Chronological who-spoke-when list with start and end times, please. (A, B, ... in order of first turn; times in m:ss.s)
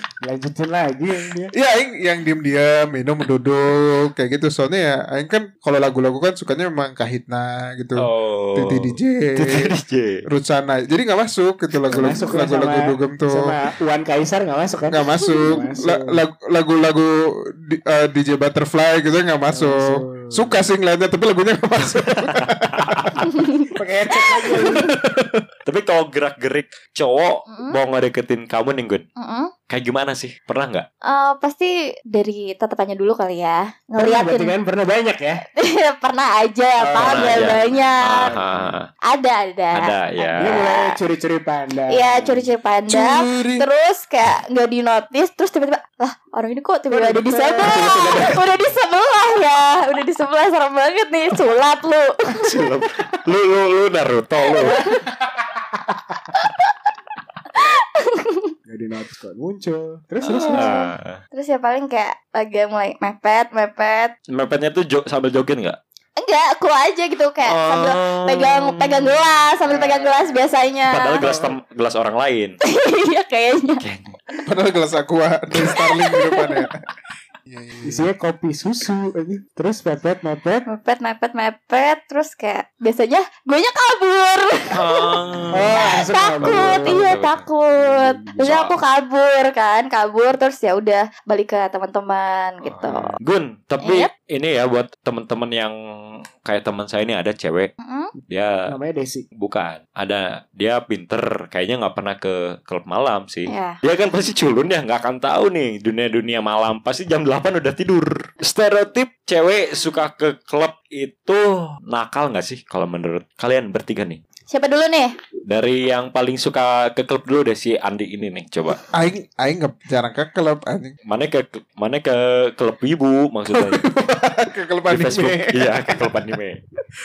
0:00.2-0:01.5 A
0:01.5-0:09.7 B
0:08.0-0:10.2 C
0:10.2-0:13.6 B
0:11.9-0:16.2 A
0:14.9-0:23.3 B
0:19.5-0:20.6 A
0:22.0-0:23.2 C
0:23.2-0:23.7 D
0:23.7-0:24.9 A
0:24.7-0:25.4 B
0:25.6-0:29.0 C
0:27.5-0:27.8 D
0:29.2-0:29.5 D
0:29.7-0:30.9 C
0:31.0-0:34.5 D
0:34.0-0:35.4 A
0:35.6-0:38.4 D
0:36.8-0:37.6 A
0:37.0-0:38.8 C
0:38.2-0:38.7 A
0:39.1-0:41.0 D
0:39.7-0:40.6 C
0:40.4-0:42.4 A
0:41.9-0:52.5 D
0:42.9-0:43.6 B
0:46.9-0:48.6 A
0:52.4-0:54.8 C
0:54.6-0:55.4 A
0:54.6-0:55.0 D
0:56.3-0:56.6 D
0:57.6-0:58.5 D
0:58.6-1:00.8 A
1:00.2-1:01.2 C
1:00.2-1:04.1 D
1:04.3-1:05.8 C
1:06.2-1:11.2 D
1:07.4-1:09.4 C
1:09.6-1:10.5 A
1:10.9-1:12.6 C
1:11.2-1:11.6 A
1:12.7-1:13.8 D
1:13.8-1:14.1 C
1:14.4-1:16.7 B
1:15.5-1:16.6 D
1:17.5-1:18.1 B
1:17.8-1:20.6 A
1:20.7-1:33.2 D
1:24.7-1:27.4 C
1:25.5-1:27.0 A
1:27.7-1:28.4 A
1:28.4-1:28.8 C
1:32.6-1:35.7 C
1:33.8-1:34.1 D
1:36.4-1:37.7 C
1:37.8-1:38.1 D
1:38.3-1:38.6 C
1:38.7-1:39.2 A
1:39.4-1:54.2 C
1:43.5-1:43.8 D
1:54.5-1:55.2 D
1:55.5-1:58.8 C
1:58.9-2:01.0 B
2:01.1-2:03.9 C
2:03.5-2:06.4 B
2:04.9-2:06.6 C